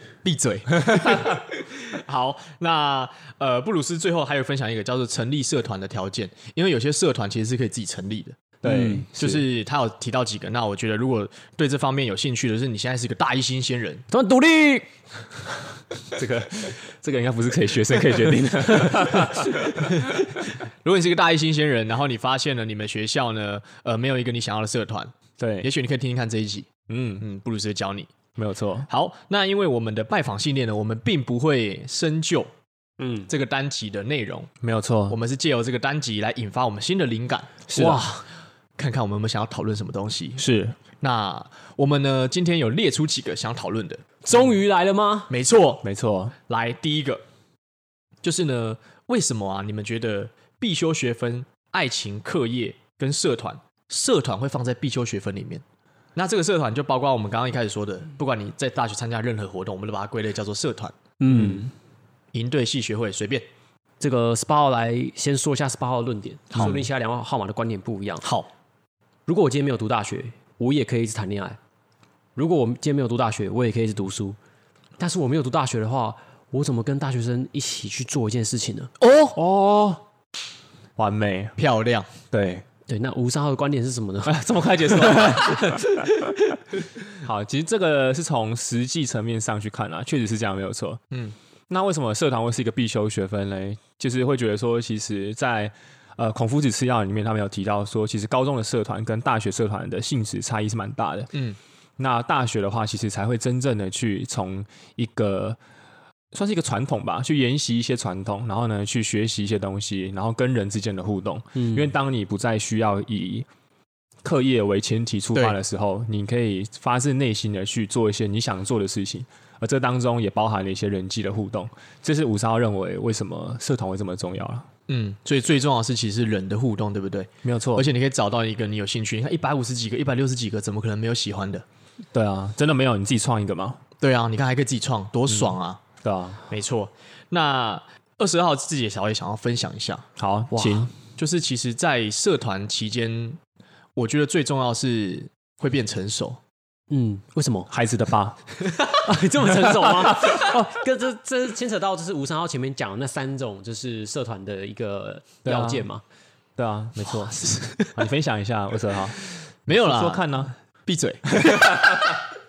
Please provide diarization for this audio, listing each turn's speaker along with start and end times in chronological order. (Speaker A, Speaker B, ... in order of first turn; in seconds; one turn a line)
Speaker A: 0.2-8.5
Speaker B: 0.9-1.4
Speaker B: 8.6-9.4
Speaker C: 8.6-9.1
Speaker A: 9.1-14.1
Speaker C: 14.1-14.9
Speaker B: 16.1-20.4
Speaker C: 18.7-19.9
Speaker A: 20.8-28.1
Speaker B: 25.4-25.7
Speaker B: 26.9-27.2
Speaker B: 28.4-28.9
Speaker A: 28.9-32.5
Speaker A: 33.3-34.5
Speaker B: 34.6-35.2
Speaker A: 35.1-37.6
Speaker B: 37.7-38.1
Speaker C: 37.7-38.2
Speaker A: 38.8-40.4
Speaker B: 40.4-40.8
Speaker A: 41.0-44.5
Speaker C: 44.2-45.3
Speaker A: 45.3-45.8
Speaker B: 45.8-46.3
Speaker A: 46.5-47.2
Speaker A: 48.2-55.6
Speaker A: 56.1-61.5
Speaker C: 61.2-61.7
Speaker B: 61.3-61.6
Speaker A: 62.3-63.4
Speaker C: 64.0-68.2
Speaker A: 68.2-68.5
Speaker C: 69.3-71.6
Speaker C: 72.3-74.4
Speaker C: 75.0-78.9
Speaker A: 79.0-79.4
Speaker B: 79.3-80.0
Speaker B: 81.0-81.5
Speaker A: 81.6-82.1
Speaker B: 82.3-82.6
Speaker C: 82.9-86.0
Speaker B: 84.2-86.3
Speaker B: 87.2-91.0
Speaker A: 91.1-91.3
Speaker B: 91.7-101.3
Speaker A: 101.3-101.6
Speaker B: 102.0-105.6
Speaker B: 106.3-113.5
Speaker C: 111.5-111.9
Speaker B: 114.2-124.7
Speaker A: 124.9-131.6
Speaker B: 127.4-127.8
Speaker B: 132.1-133.8
Speaker A: 134.0-135.8
Speaker B: 135.3-136.4
Speaker A: 136.5-143.4
Speaker B: 140.2-140.9
Speaker A: 143.9-146.4
Speaker C: 146.9-147.7
Speaker B: 147.7-148.4
Speaker C: 148.7-156.0
Speaker B: 149.5-150.6
Speaker B: 155.4-155.9
Speaker B: 156.6-160.5
Speaker A: 157.4-157.9
Speaker A: 159.7-162.0